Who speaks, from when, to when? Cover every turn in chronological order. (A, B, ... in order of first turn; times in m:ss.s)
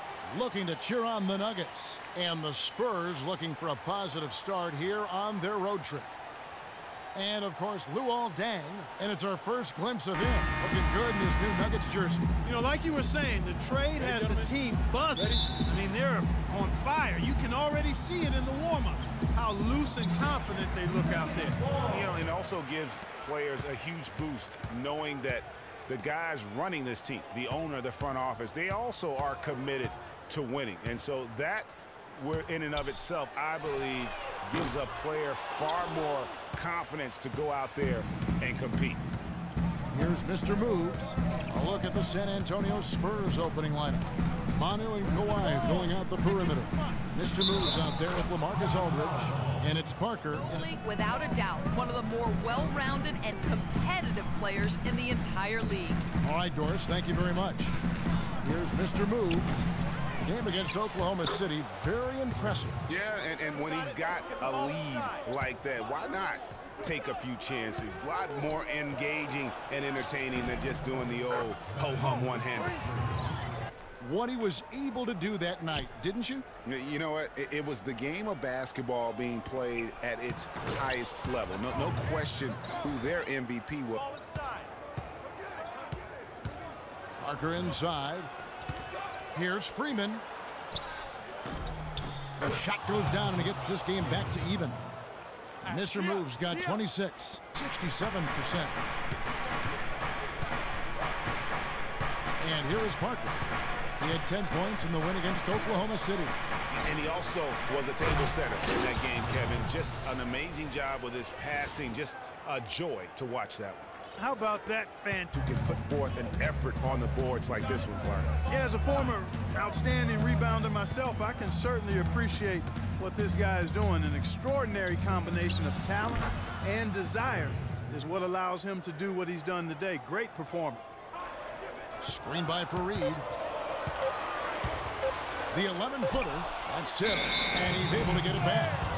0:00.3-0:06.1 A
0:07.1-0:12.3 A
0:12.4-0:21.7 B
0:21.7-0:39.0 C
0:39.9-0:50.7 A
0:50.3-0:56.0 D
0:56.2-0:57.7 A
0:58.4-0:59.6 A
1:00.2-1:02.9 A
1:02.9-1:12.8 C
1:14.0-1:16.5 A
1:16.6-1:24.4 C
1:27.2-1:28.3 A
1:29.3-1:30.2 A
1:32.4-1:34.8 A
1:35.6-1:38.7 A
1:42.4-1:43.4 A
1:44.0-1:46.3 A
1:46.7-1:54.0 C
1:54.2-1:55.3 B
1:55.3-1:58.4 C
1:58.4-2:10.8 B
2:12.0-2:13.2 A
2:15.5-2:18.8 A